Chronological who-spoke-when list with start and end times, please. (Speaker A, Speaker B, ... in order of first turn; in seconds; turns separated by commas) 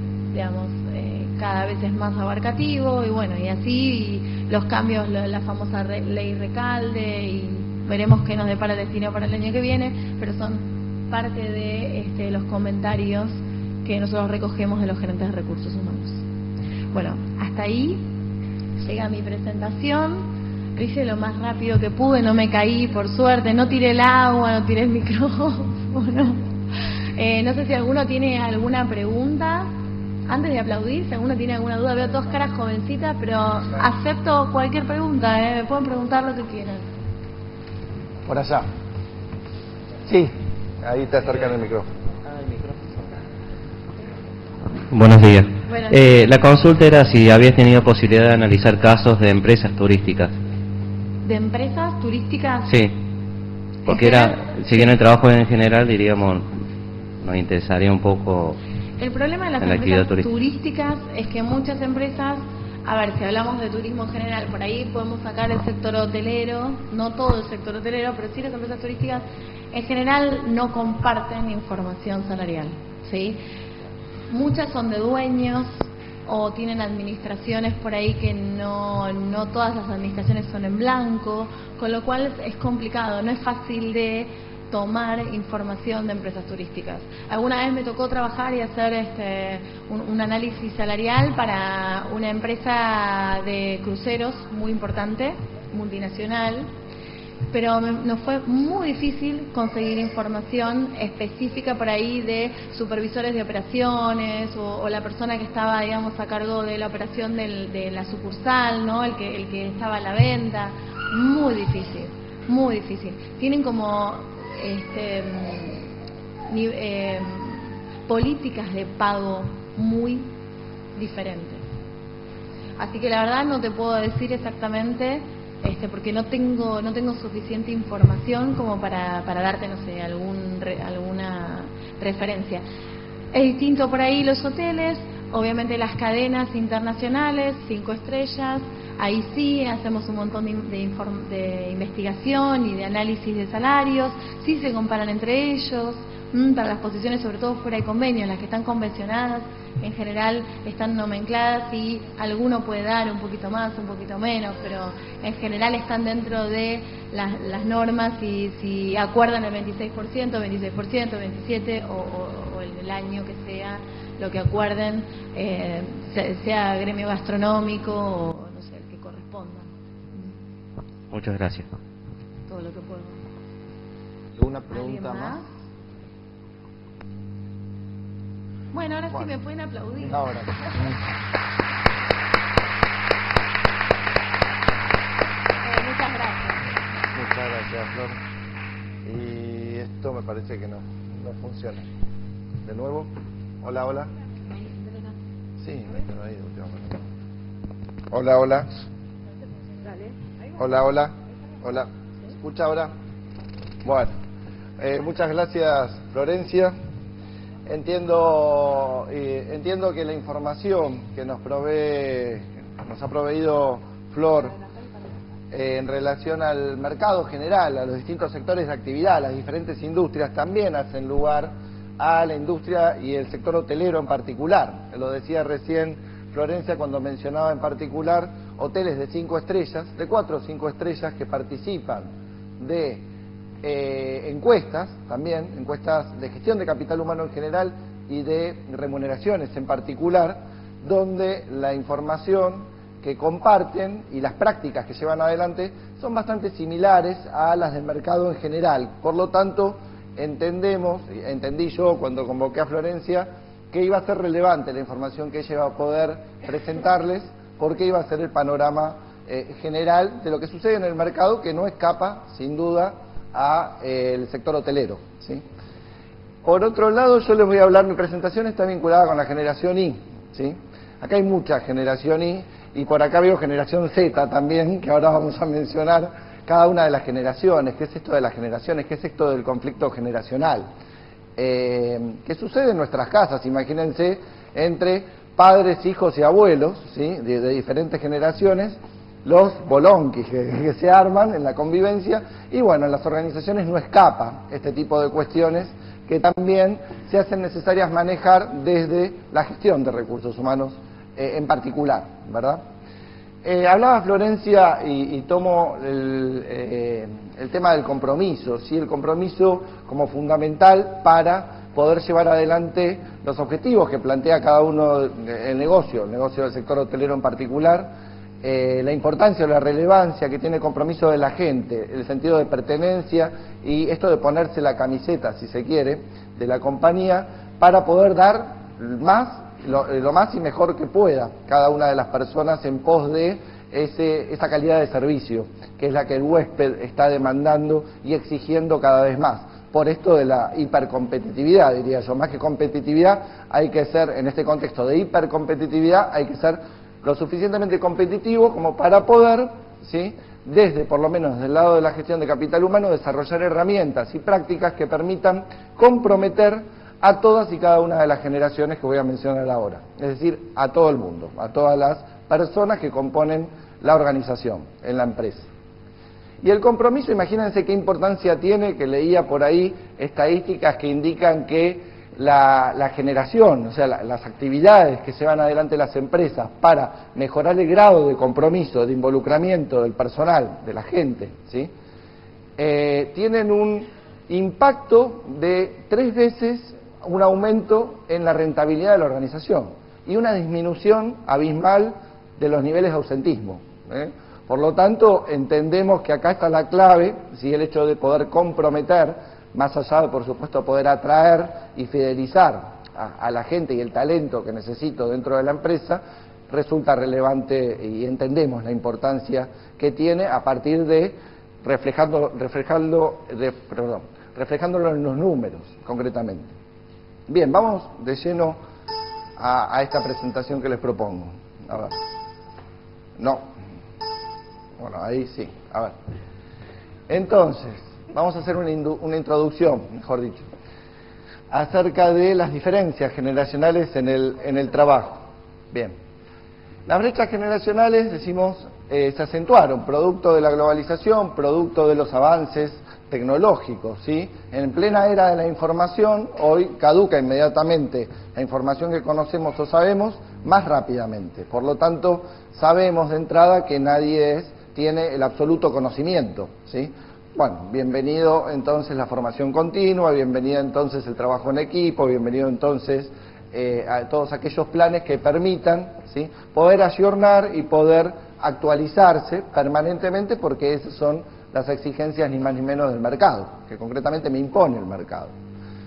Speaker A: 0.3-16.2, Speaker A: 16.9-18.0, Speaker A: 18.8-26.4, Speaker A: 27.2-29.7, Speaker A: 30.3-36.9, Speaker B: 38.2-38.7, Speaker B: 40.0-41.9, Speaker C: 44.9-50.3, Speaker A: 45.7-46.0, Speaker A: 51.2-52.7, Speaker C: 52.7-52.9, Speaker A: 53.9-54.3, Speaker C: 53.9-56.5, Speaker C: 57.2-58.6, Speaker A: 59.0-73.4, Speaker C: 59.6-60.2, Speaker A: 74.3-96.7, Speaker A: 97.5-115.8, Speaker A: 116.5-120.3, Speaker A: 121.0-121.6, Speaker A: 122.8-132.6, Speaker A: 133.3-170.3, Speaker C: 171.1-171.7, Speaker A: 172.5-173.2, Speaker B: 174.3-175.4, Speaker A: 174.7-175.4, Speaker A: 178.7-180.8, Speaker B: 180.0-180.9, Speaker A: 185.6-186.6, Speaker B: 187.1-188.2, Speaker B: 189.0-191.9, Speaker B: 192.6-193.1, Speaker B: 193.6-194.1, Speaker B: 195.6-197.0, Speaker B: 198.1-198.7, Speaker B: 200.6-202.9, Speaker B: 203.8-204.1, Speaker B: 204.8-206.7, Speaker B: 207.7-214.5, Speaker B: 215.5-233.0, Speaker B: 233.6-265.4, Speaker B: 266.4-280.7, Speaker B: 281.4-302.6, Speaker B: 303.4-317.9, Speaker B: 318.4-365.5, Speaker B: 366.4-381.7, Speaker B: 382.6-416.5, Speaker B: 417.3-418.6, Speaker B: 419.4-422.0, Speaker B: 423.2-423.5, Speaker B: 424.8-425.9, Speaker B: 427.1-430.5, Speaker B: 431.5-435.9, Speaker B: 436.9-475.3